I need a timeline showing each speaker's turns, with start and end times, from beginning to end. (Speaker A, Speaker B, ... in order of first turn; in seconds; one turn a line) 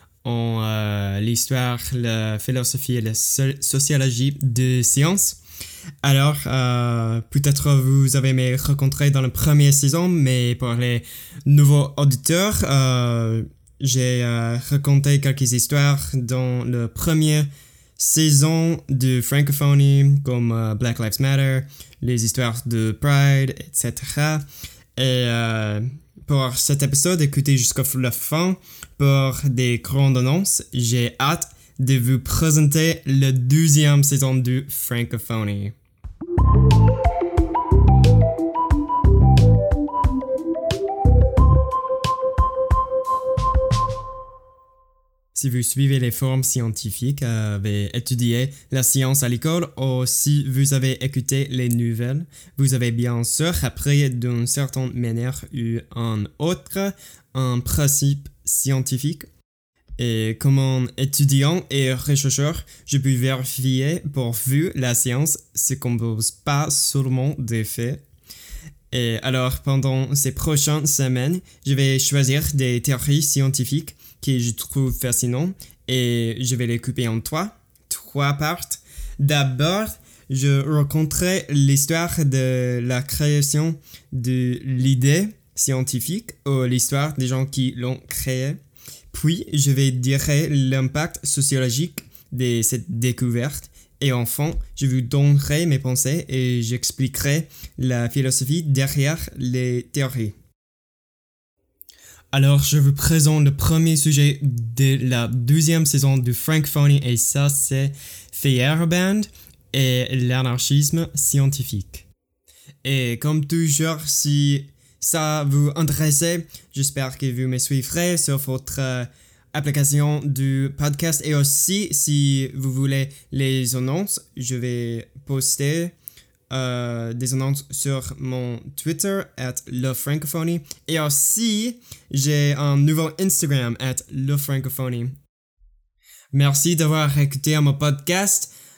Speaker A: 0.2-5.4
Speaker A: 6.0-24.4
Speaker A: 25.0-35.7
Speaker A: 45.3-59.3
Speaker A: 60.0-68.0
Speaker A: 68.9-88.6
Speaker A: 89.1-100.3
Speaker A: 102.3-112.1
Speaker A: 112.8-125.9
Speaker A: 126.5-135.1
Speaker A: 136.3-138.5